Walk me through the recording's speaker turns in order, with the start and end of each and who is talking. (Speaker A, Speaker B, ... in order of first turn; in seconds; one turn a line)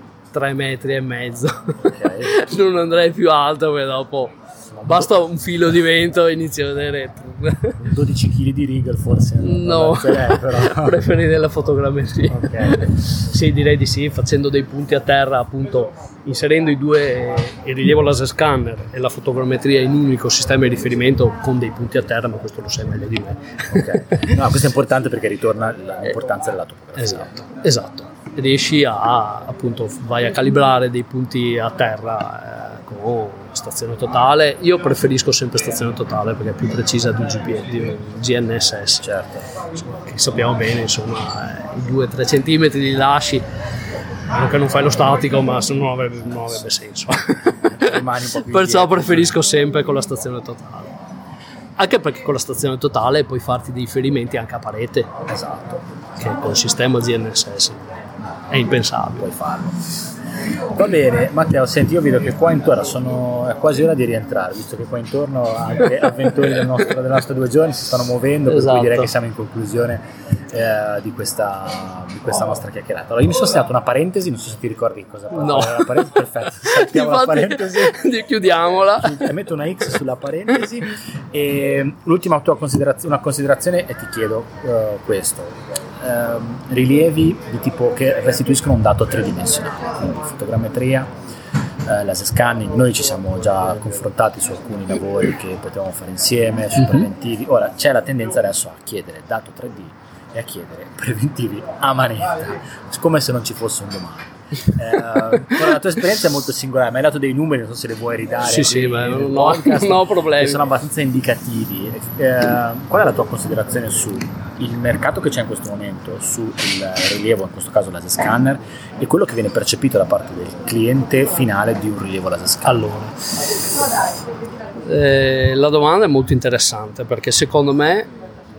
Speaker A: 0.3-7.8
Speaker B: 1.8-2.3
Speaker B: 4.8-5.1
Speaker B: 7.8-11.0
Speaker A: 9.4-24.3
Speaker B: 12.3-12.9
Speaker B: 23.7-27.3
Speaker A: 27.0-39.1
Speaker B: 39.0-39.4
Speaker A: 39.7-43.4
Speaker A: 44.3-50.9
Speaker B: 47.7-49.4
Speaker A: 51.8-55.1
Speaker B: 55.3-55.8
Speaker A: 56.2-57.8
Speaker A: 58.5-59.3
Speaker B: 59.2-59.8
Speaker B: 60.7-78.0
Speaker A: 68.5-69.1
Speaker A: 75.3-79.3
Speaker B: 79.0-91.1
Speaker B: 91.8-122.9
Speaker A: 108.4-110.7
Speaker A: 122.7-123.1
Speaker A: 124.8-128.1